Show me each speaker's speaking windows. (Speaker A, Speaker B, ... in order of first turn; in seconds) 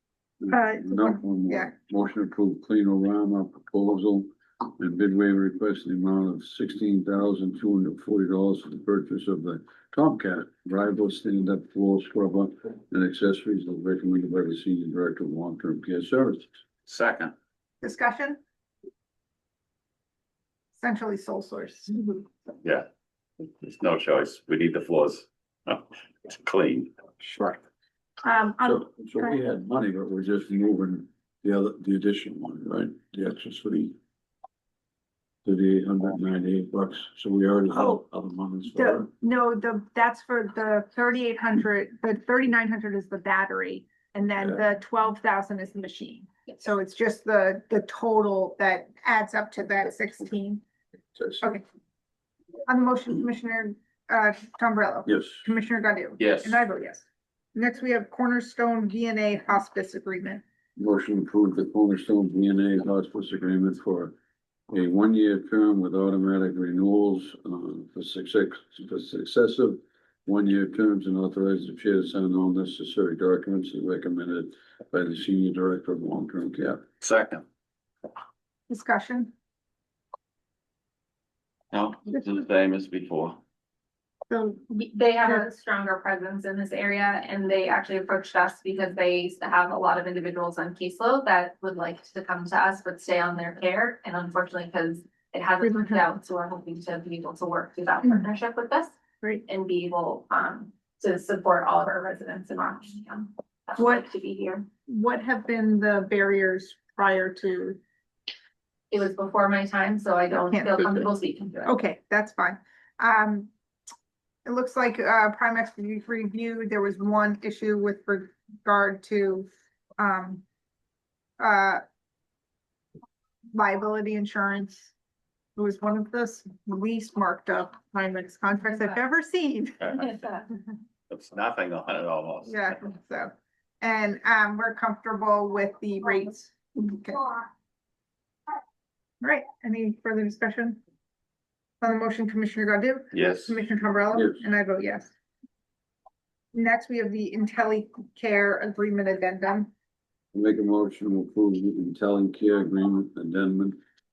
Speaker A: 0.4-16.6, 28.6-34.0, 35.5-39.1, 51.2-51.4, 55.1-55.4, 60.8-64.1, 64.7-76.8, 150.3-153.8
Speaker B: 0.5-1.7, 17.8-18.4, 20.8-22.1, 28.2-29.4, 37.7-38.0, 38.7-50.6, 52.7-60.4, 78.7-79.3, 84.3-84.6, 95.6-96.1, 103.8-104.1, 104.9-107.8, 110.5-111.1, 111.7-113.5, 114.5-120.4, 121.4-121.8, 123.5-124.9, 125.6-130.2, 132.4-137.5, 139.2-140.8, 141.8-145.1, 146.5-149.7
Speaker C: 16.9-17.3, 23.6-26.9, 56.2-56.6, 77.0-77.4, 81.7-83.4, 129.8-130.1, 131.1-132.8, 143.1-143.6
Speaker D: 84.7-104.7, 108.9-111.8